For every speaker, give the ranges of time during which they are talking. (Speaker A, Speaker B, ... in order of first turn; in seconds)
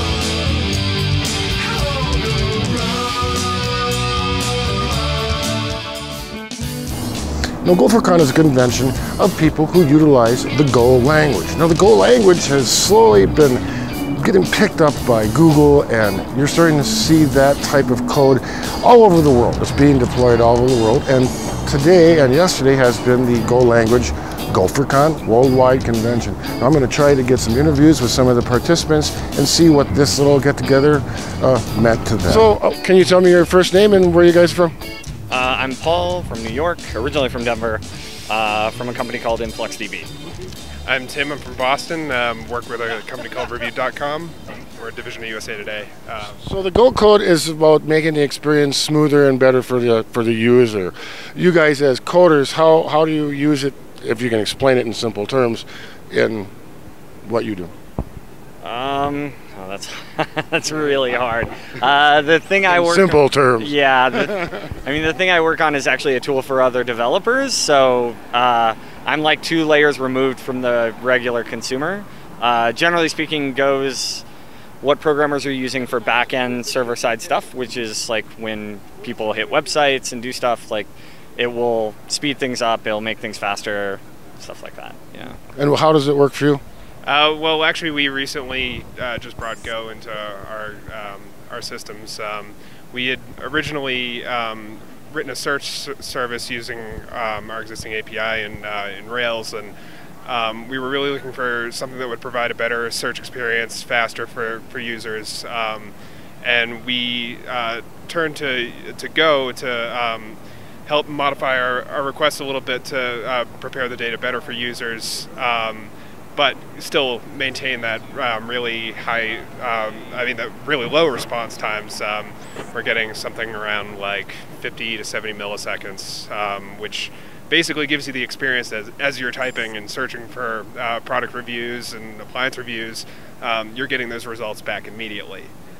Speaker A: 7.6-34.7, 46.4-56.5, 57.2-57.7, 62.6-64.3, 85.5-86.6
Speaker B: 35.3-40.1, 58.6-74.2, 74.8-85.4
Speaker C: 40.9-46.4, 87.0-99.7, 100.2-135.5